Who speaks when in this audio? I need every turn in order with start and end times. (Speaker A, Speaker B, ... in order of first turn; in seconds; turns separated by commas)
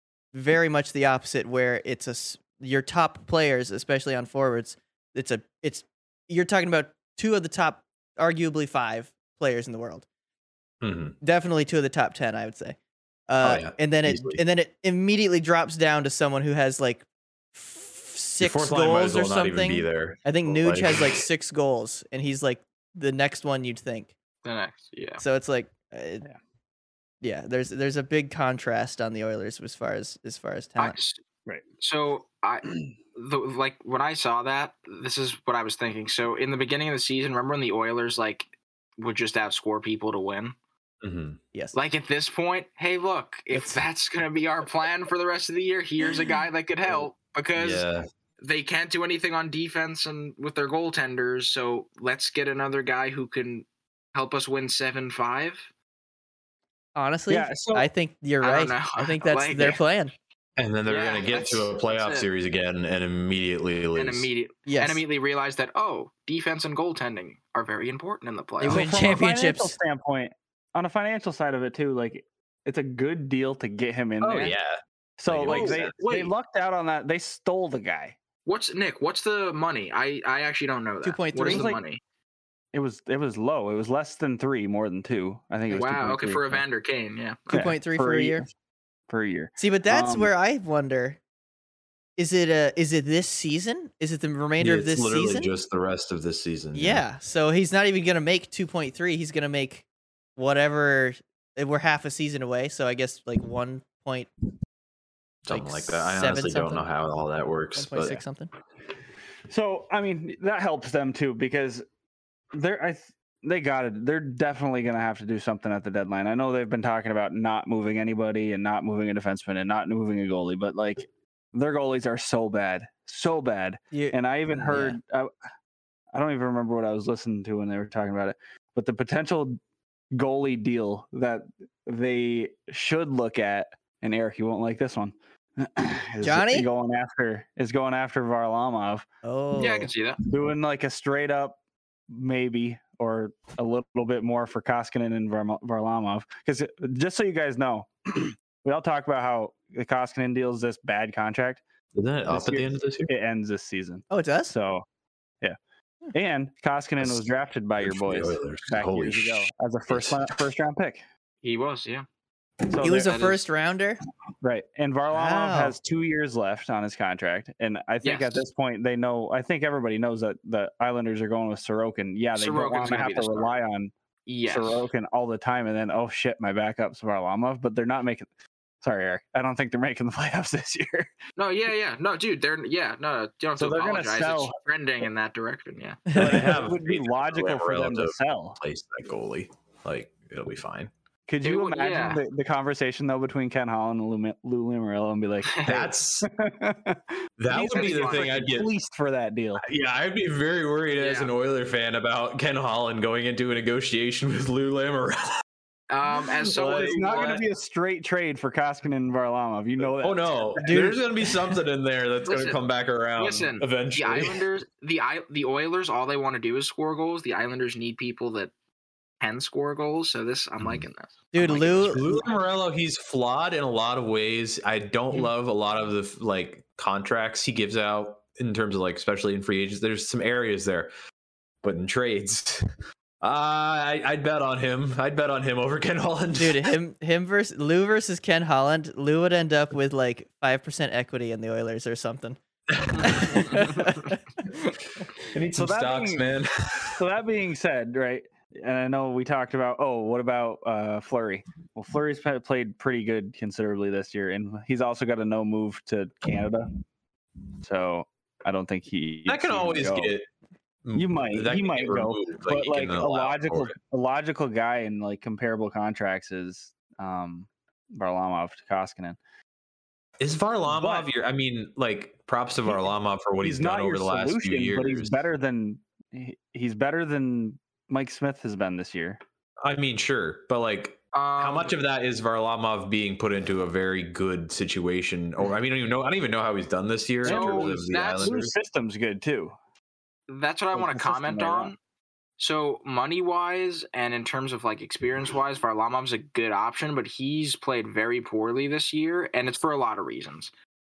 Speaker A: 0.3-10.1, Speaker B: 10.8-11.2, Speaker A: 11.2-12.8, Speaker A: 13.3-24.1, Speaker B: 13.4-14.4, Speaker B: 18.4-21.2, Speaker C: 24.4-25.2, Speaker A: 25.2-26.3, Speaker A: 27.2-31.0, Speaker C: 30.8-31.2, Speaker C: 31.8-38.5, Speaker C: 39.0-40.5, Speaker B: 41.0-41.4, Speaker C: 41.7-47.9, Speaker A: 43.5-43.8, Speaker B: 47.6-48.1, Speaker C: 48.4-55.6, Speaker A: 57.0-60.1, Speaker D: 57.3-57.9, Speaker C: 58.4-59.8, Speaker B: 60.6-64.3, Speaker C: 60.9-62.3, Speaker C: 64.0-68.9, Speaker A: 64.7-65.0, Speaker A: 68.6-69.8, Speaker D: 68.6-74.5, Speaker B: 74.2-75.9, Speaker D: 75.2-78.2, Speaker C: 75.5-76.3, Speaker C: 78.5-82.0, Speaker A: 81.0-81.7, Speaker D: 81.4-81.8, Speaker D: 82.7-86.6, Speaker C: 85.7-87.5, Speaker A: 87.5-88.5, Speaker D: 87.5-88.5, Speaker D: 89.1-90.3, Speaker A: 89.6-91.2, Speaker A: 92.2-95.5, Speaker B: 94.6-97.0, Speaker A: 96.7-99.8, Speaker A: 100.4-104.3, Speaker B: 105.5-108.2, Speaker A: 105.5-106.8, Speaker A: 107.8-108.5, Speaker D: 109.5-111.8, Speaker D: 112.5-125.3, Speaker A: 123.9-125.0, Speaker D: 126.1-129.6, Speaker D: 130.1-139.1, Speaker A: 136.2-136.7, Speaker A: 139.2-139.9, Speaker C: 139.6-140.2, Speaker D: 140.2-141.6, Speaker D: 142.1-151.6, Speaker B: 151.9-153.1, Speaker D: 152.3-154.8, Speaker A: 154.1-154.5, Speaker D: 156.1-161.0, Speaker B: 157.0-157.2, Speaker B: 157.8-160.3, Speaker C: 161.4-162.1, Speaker D: 162.7-163.2, Speaker A: 162.8-164.0, Speaker C: 162.9-163.4, Speaker D: 164.4-173.9, Speaker A: 165.1-165.8, Speaker C: 168.0-168.4, Speaker C: 172.3-173.6, Speaker C: 174.3-174.9, Speaker D: 174.5-178.3, Speaker D: 178.8-181.1, Speaker C: 181.4-186.1, Speaker D: 183.6-184.6, Speaker A: 186.1-186.4, Speaker D: 186.2-188.6, Speaker B: 186.2-190.9, Speaker D: 191.3-199.6, Speaker C: 191.4-192.2, Speaker C: 195.4-195.8, Speaker B: 195.7-196.3, Speaker B: 197.4-198.7, Speaker C: 197.7-198.3, Speaker B: 199.6-205.4, Speaker C: 201.0-201.3, Speaker C: 205.9-207.4, Speaker D: 206.5-210.8, Speaker B: 210.0-214.4, Speaker A: 210.6-211.3, Speaker C: 212.2-212.6, Speaker C: 213.2-218.5, Speaker C: 219.2-222.2, Speaker A: 221.3-222.1, Speaker B: 221.8-230.9, Speaker B: 231.6-232.7, Speaker B: 233.2-236.8, Speaker A: 236.3-242.4, Speaker B: 242.7-243.5, Speaker A: 242.9-244.7, Speaker B: 245.2-247.0, Speaker D: 245.6-246.2, Speaker D: 247.0-256.8, Speaker D: 257.6-260.1, Speaker B: 259.3-260.3, Speaker B: 260.9-263.8, Speaker D: 260.9-269.2, Speaker B: 270.2-275.2, Speaker D: 270.7-271.1, Speaker D: 273.4-279.2, Speaker B: 279.6-288.5, Speaker C: 281.1-281.8, Speaker D: 287.2-289.6, Speaker C: 287.2-288.3, Speaker C: 290.3-291.8, Speaker D: 290.7-291.7, Speaker C: 292.4-300.5